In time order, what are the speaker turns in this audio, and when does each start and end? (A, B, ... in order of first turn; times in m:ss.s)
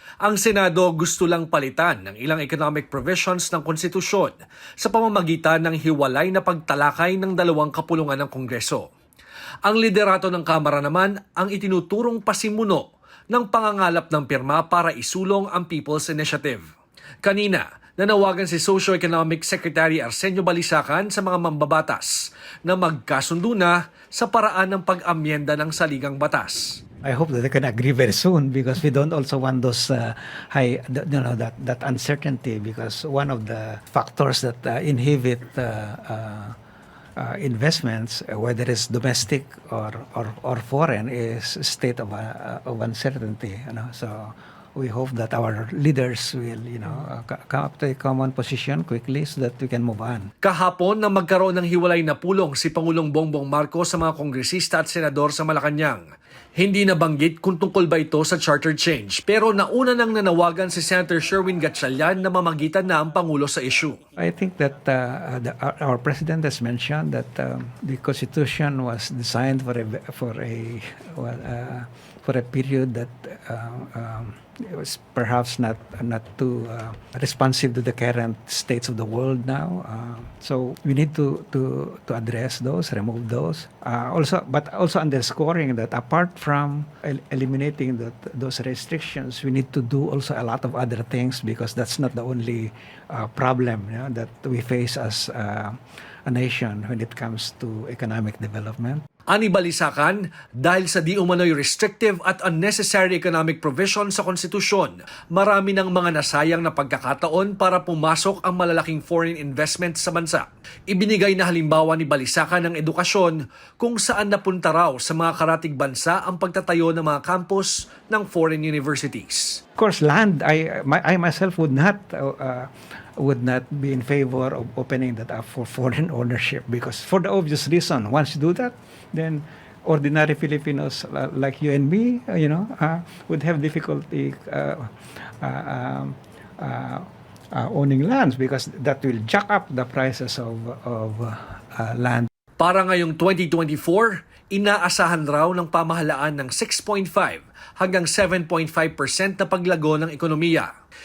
0:00.2-0:08.9 A
0:09.6-0:16.6 A
0:17.2-0:26.8 A
0:27.0-0:36.6 B
0:37.2-0:50.3 B
0:50.4-0:56.0 A
0:56.6-1:04.0 A
1:04.2-1:39.0 B
1:39.3-1:59.6 A
1:59.8-2:22.3 B
2:22.6-2:30.7 A